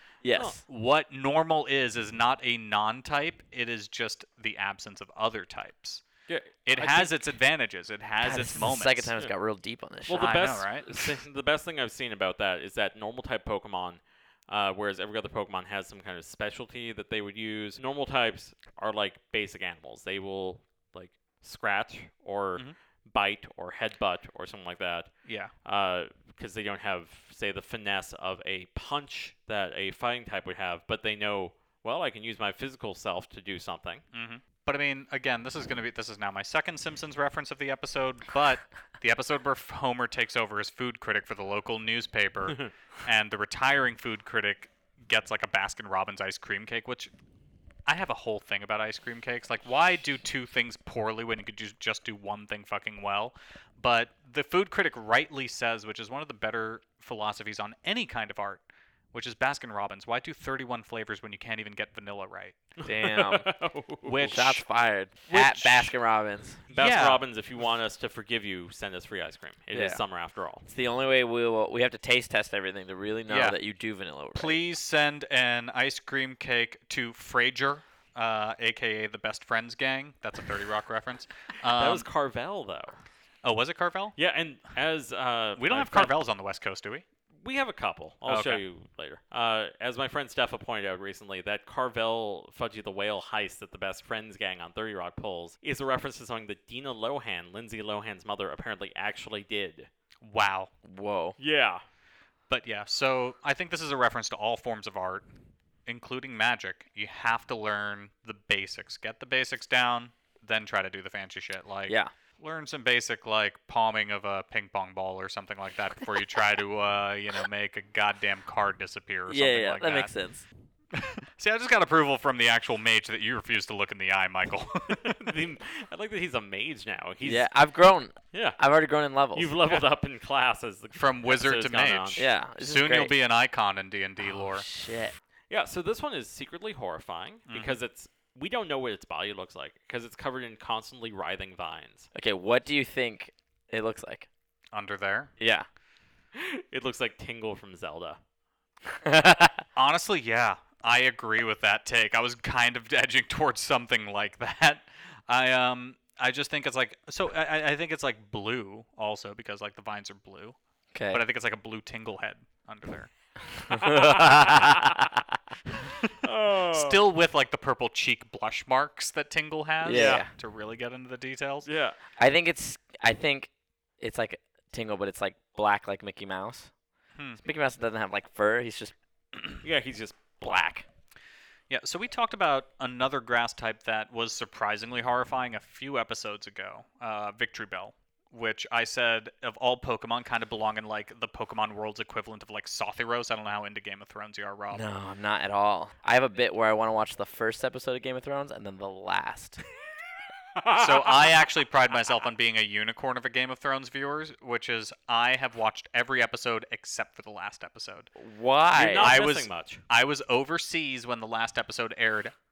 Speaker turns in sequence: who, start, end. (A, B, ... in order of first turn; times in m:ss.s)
0:00.2-0:00.6 A
0:00.3-0:00.6 B
0:00.6-0:06.0 C
0:06.3-0:07.1 B
0:06.6-0:09.1 C
0:08.2-0:10.4 A
0:10.1-0:25.1 B
0:10.1-0:10.9 C
0:25.2-0:25.5 C
0:25.6-0:34.0 B
0:34.1-0:47.1 C
0:47.9-1:02.6 C
1:02.8-1:04.3 B
1:02.8-1:03.5 A
1:04.0-1:04.6 C
1:04.2-1:06.6 A
1:05.3-1:05.9 C
1:06.7-1:10.6 B
1:06.7-1:07.2 C
1:09.7-1:10.0 A
1:10.6-1:14.6 A
1:13.3-1:13.6 C
1:14.3-1:22.1 C
1:21.7-1:23.0 B
1:23.4-1:24.2 C
1:24.2-1:26.2 B
1:25.6-1:27.0 C
1:27.4-1:39.9 B
1:28.3-1:28.6 C
1:40.2-1:40.7 C
1:40.8-1:41.4 A
1:41.4-1:41.8 B
1:42.5-1:45.2 C
1:45.8-2:00.1 C
1:59.3-2:00.4 A
2:00.9-2:05.4 C
2:04.9-2:07.5 B
2:07.2-2:09.5 A
2:08.3-2:08.6 B
2:09.3-2:12.2 B
2:10.9-2:14.6 C
2:12.2-2:13.1 A
2:14.2-2:15.1 A
2:15.5-2:22.1 B
2:17.5-2:17.8 C
2:22.1-2:24.3 A
2:24.7-2:25.3 C
2:25.4-2:25.6 A
2:26.3-2:28.2 B
2:29.0-2:29.6 A
2:29.8-2:40.6 C
2:40.9-2:41.2 A
2:41.1-2:43.1 C
2:43.7-2:45.2 A
2:43.7-2:44.9 B
2:46.2-2:47.0 B
2:46.7-2:51.7 C
2:49.8-2:50.3 A
2:49.9-2:50.2 B
2:51.6-2:52.0 B
2:52.2-2:56.7 A
2:57.2-2:57.4 C
2:57.4-2:58.9 A
2:59.6-3:00.6 B
3:00.4-3:00.8 A
3:01.7-3:14.8 C
3:14.7-3:19.6 A
3:20.6-3:21.5 B
3:20.8-3:28.1 C
3:28.2-3:29.1 A
3:28.7-3:29.8 B
3:29.0-3:32.3 C